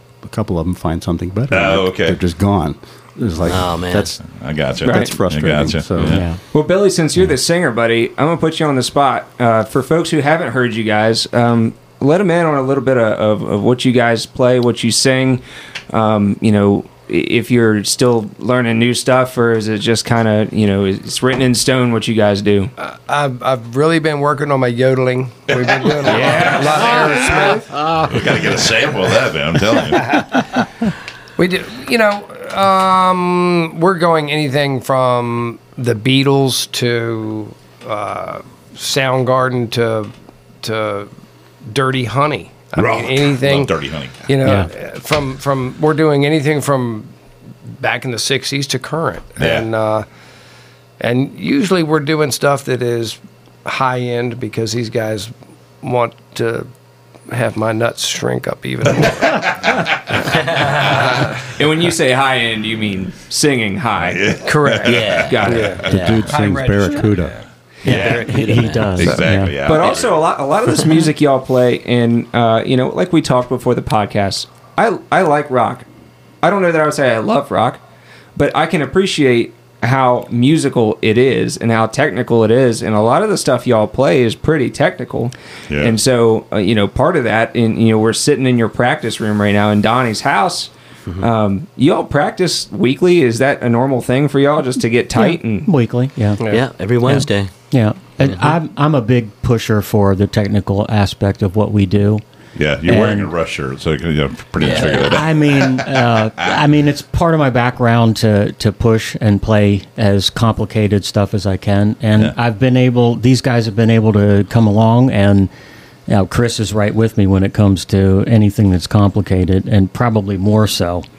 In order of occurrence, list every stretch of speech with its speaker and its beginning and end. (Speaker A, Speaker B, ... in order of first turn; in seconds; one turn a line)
Speaker A: 0.2-4.2
Speaker B: 1.5-2.2
Speaker C: 3.4-4.2
Speaker B: 4.3-6.2
Speaker A: 4.8-6.2
Speaker D: 4.8-5.1
Speaker E: 6.0-6.4
Speaker D: 6.5-22.7
Speaker F: 22.8-28.0
Speaker B: 25.5-26.3
Speaker D: 26.0-27.6
Speaker B: 28.0-30.2
Speaker F: 30.0-30.4
Speaker F: 31.4-41.1
Speaker F: 41.6-43.7
Speaker B: 42.7-44.2
Speaker F: 44.3-47.1
Speaker E: 44.4-44.7
Speaker F: 47.7-50.0
Speaker B: 49.4-49.6
Speaker F: 51.0-56.7
Speaker F: 57.3-61.4
Speaker D: 61.5-64.3
Speaker B: 64.0-65.9
Speaker F: 64.4-67.3
Speaker C: 64.8-66.3
Speaker D: 65.2-65.8
Speaker A: 65.8-67.4
Speaker E: 67.8-69.5
Speaker B: 67.8-68.3
Speaker C: 67.8-69.2
Speaker B: 69.0-70.2
Speaker D: 69.6-75.8
Speaker D: 76.4-77.8
Speaker D: 78.3-95.7
Speaker B: 85.7-86.0
Speaker E: 95.1-96.4
Speaker C: 96.5-97.5
Speaker E: 97.0-102.2
Speaker C: 98.2-98.5
Speaker B: 102.5-106.6
Speaker E: 102.8-103.3
Speaker C: 104.6-105.2
Speaker E: 104.7-115.5
Speaker E: 116.1-121.0